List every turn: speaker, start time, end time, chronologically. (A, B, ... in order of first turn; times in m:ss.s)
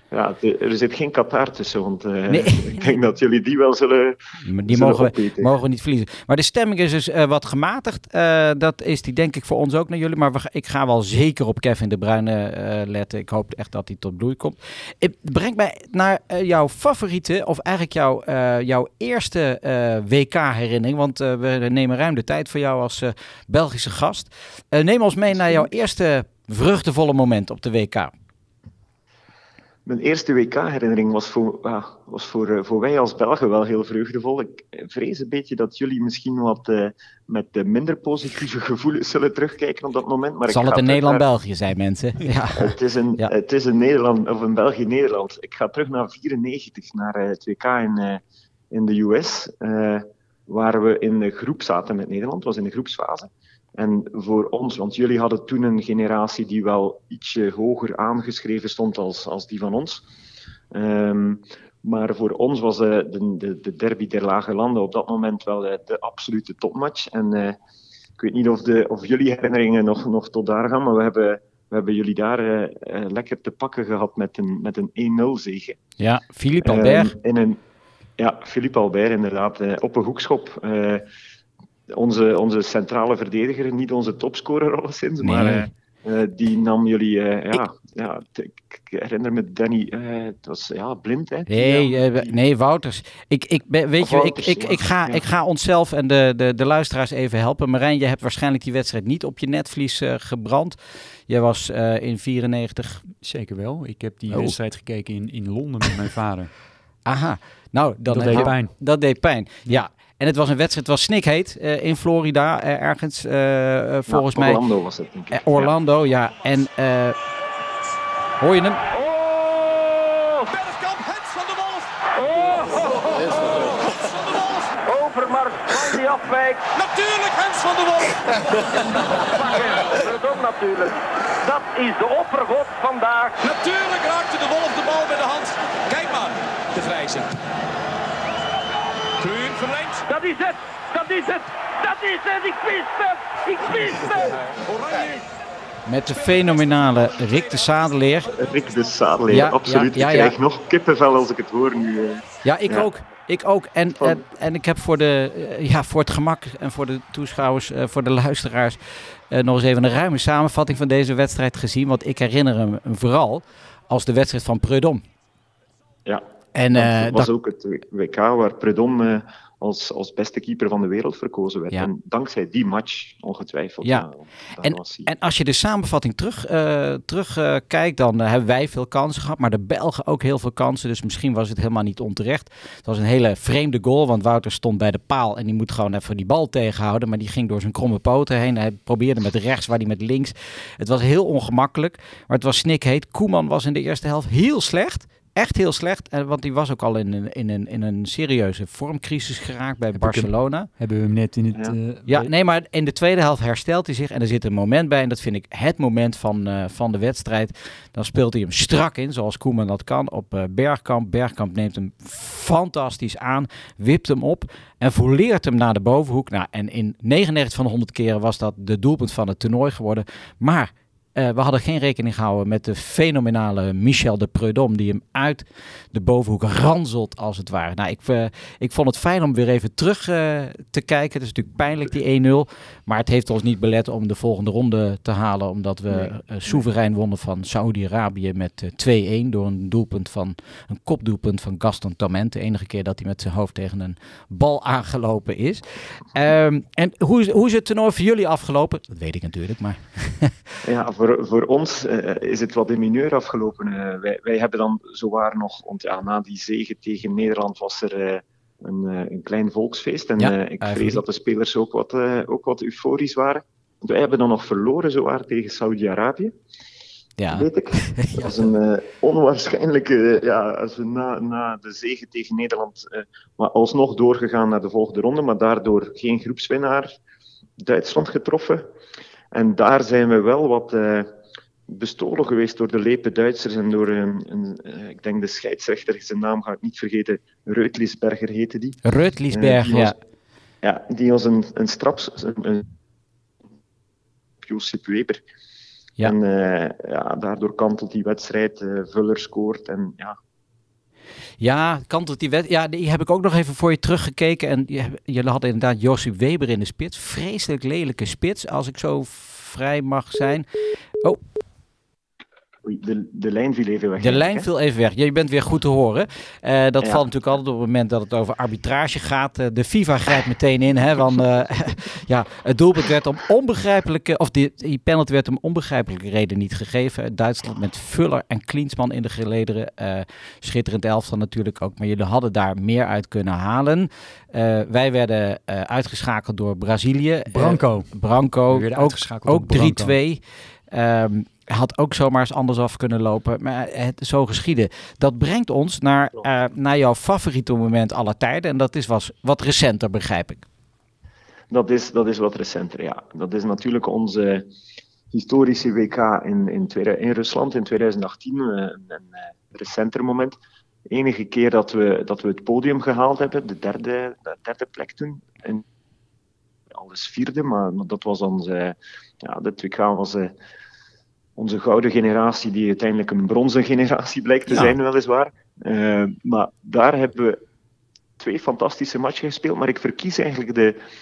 0:00.1-0:05.5 A
0:02.3-0:03.0 B
0:04.5-0:28.1 B
0:25.3-0:25.7 A
0:29.9-0:41.2 A
0:40.5-0:43.3 B
0:42.6-1:00.0 A
1:00.7-1:07.6 A
1:08.2-1:15.8 A
1:16.0-1:17.2 B
1:16.6-1:17.6 A
1:18.2-1:21.1 A
1:21.9-1:32.4 A
1:25.2-1:25.7 B
1:31.5-1:43.0 B
1:34.0-1:35.2 A
1:43.2-1:46.5 C
1:44.3-1:44.6 B
1:47.1-1:54.7 B
1:48.1-1:48.7 C
1:54.1-1:55.7 A
1:55.3-1:57.2 B
1:58.4-1:58.8 B
1:59.0-2:00.4 D
2:00.5-2:04.8 E
2:02.2-2:03.9 D
2:04.8-2:06.6 D
2:05.7-2:06.0 E
2:06.7-2:10.1 E
2:09.2-2:13.4 D
2:13.4-2:17.4 E
2:19.2-2:20.1 E
2:20.1-2:24.4 D
2:23.6-2:25.3 E
2:25.9-2:28.3 B
2:26.3-2:27.6 E
2:28.3-2:32.9 A
2:29.3-2:30.4 B
2:32.4-2:45.0 B
2:46.1-2:55.1 A
2:46.6-2:47.3 B
2:53.8-2:54.1 B
2:54.6-3:20.7 B
3:20.0-3:22.3 C
3:22.1-4:10.5 B
3:55.9-3:56.6 A
4:10.6-4:26.3 A
4:20.2-4:21.0 B
4:27.2-4:28.5 B
4:27.3-4:36.9 A
4:37.6-4:38.7 A
4:39.3-4:41.2 A
4:41.7-4:48.8 A
4:48.8-4:50.0 B
4:49.3-4:50.0 A
4:50.6-4:52.6 A
4:54.4-4:55.2 A
4:56.0-5:00.2 A
5:01.4-5:10.5 B
5:12.6-5:14.5 A
5:14.0-5:50.5 B
5:16.8-5:17.1 A
5:37.3-5:38.0 C
5:38.5-5:40.0 C
5:51.5-5:54.5 A
5:55.1-6:00.4 A
6:00.9-6:05.6 A
6:06.7-6:10.3 A
6:11.4-6:17.4 A
6:14.5-6:14.8 B
6:18.2-6:20.8 A